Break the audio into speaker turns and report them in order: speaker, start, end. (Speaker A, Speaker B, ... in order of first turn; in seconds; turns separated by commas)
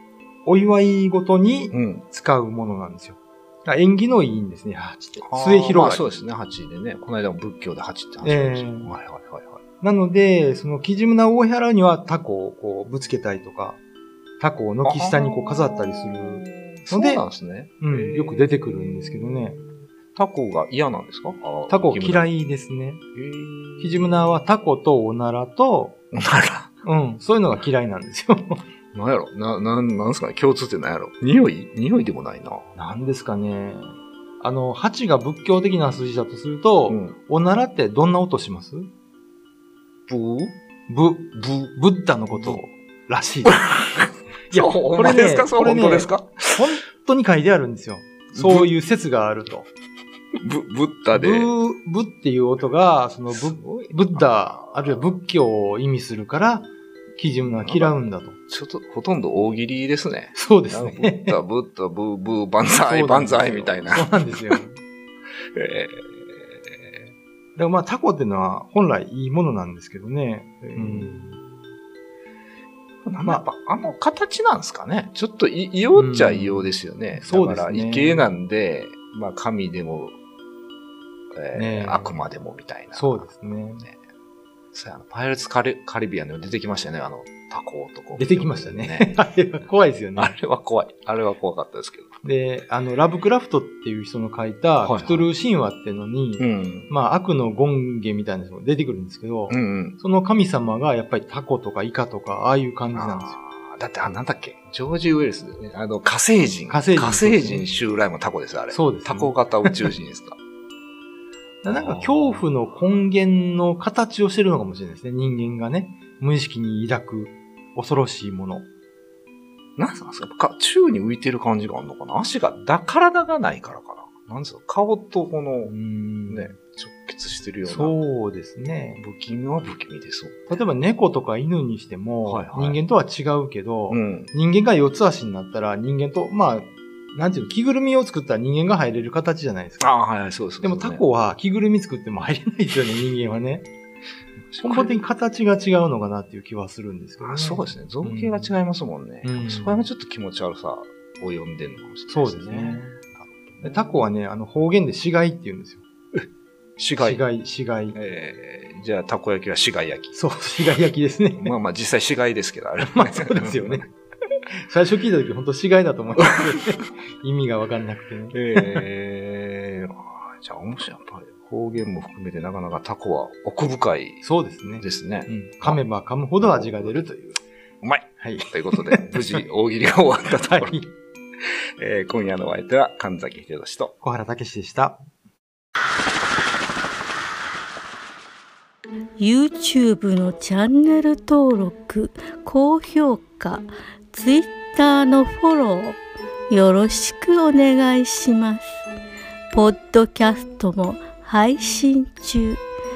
Speaker A: 0.4-6.1, Speaker B: 1.7-2.0, Speaker B: 5.2-9.6, Speaker A: 8.2-8.9, Speaker A: 9.8-13.8, Speaker A: 14.4-17.2, Speaker B: 14.8-22.3, Speaker A: 17.8-19.6, Speaker A: 21.7-23.0, Speaker B: 23.1-24.4, Speaker A: 23.8-26.0, Speaker B: 26.1-26.7, Speaker A: 26.8-28.6, Speaker B: 28.9-32.7, Speaker A: 32.8-38.9, Speaker B: 36.9-37.2, Speaker B: 40.1-40.5, Speaker A: 40.9-43.7, Speaker B: 42.4-42.6, Speaker B: 43.5-46.7, Speaker A: 44.5-49.7, Speaker B: 48.4-48.7, Speaker B: 50.4-51.5, Speaker A: 51.1-58.4, Speaker B: 53.3-55.1, Speaker B: 57.6-58.0, Speaker B: 58.5-64.6, Speaker A: 60.4-61.4, Speaker A: 62.8-64.8, Speaker B: 65.5-67.1, Speaker A: 67.6-71.4, Speaker B: 70.6-71.4, Speaker B: 73.0-80.2, Speaker A: 75.9-78.3, Speaker B: 81.3-84.0, Speaker A: 81.5-82.2, Speaker A: 82.9-83.8, Speaker B: 84.7-89.1, Speaker A: 88.2-90.4, Speaker B: 90.2-92.2, Speaker A: 92.2-103.4, Speaker B: 94.8-95.3, Speaker B: 96.4-96.9, Speaker B: 99.5-100.0, Speaker B: 102.9-110.4, Speaker A: 106.7-107.7, Speaker A: 108.7-109.8, Speaker A: 111.6-118.7, Speaker B: 111.7-112.5, Speaker B: 119.8-125.7, Speaker A: 125.7-126.5, Speaker B: 126.3-128.0, Speaker A: 127.6-129.0, Speaker B: 129.0-130.4, Speaker A: 130.5-139.9, Speaker B: 132.2-132.8, Speaker B: 133.9-134.3, Speaker B: 139.8-141.0, Speaker A: 140.6-143.7, Speaker B: 144.5-145.0, Speaker A: 144.6-148.5, Speaker B: 147.2-152.9, Speaker A: 149.2-149.9, Speaker A: 152.1-155.8, Speaker B: 153.5-154.0, Speaker B: 156.8-157.2, Speaker A: 157.0-158.0, Speaker B: 157.9-160.2, Speaker A: 160.1-161.6, Speaker B: 161.4-163.8, Speaker A: 162.9-163.9, Speaker A: 164.6-168.8, Speaker B: 166.3-166.6, Speaker B: 168.3-174.2, Speaker A: 174.2-177.4, Speaker B: 174.8-175.8, Speaker B: 176.4-177.1, Speaker B: 177.8-180.8, Speaker A: 178.2-179.4, Speaker A: 180.3-180.9, Speaker B: 181.8-183.9, Speaker A: 184.0-185.0, Speaker C: 189.2-196.0, Speaker C: 196.5-198.7, Speaker C: 199.5-202.6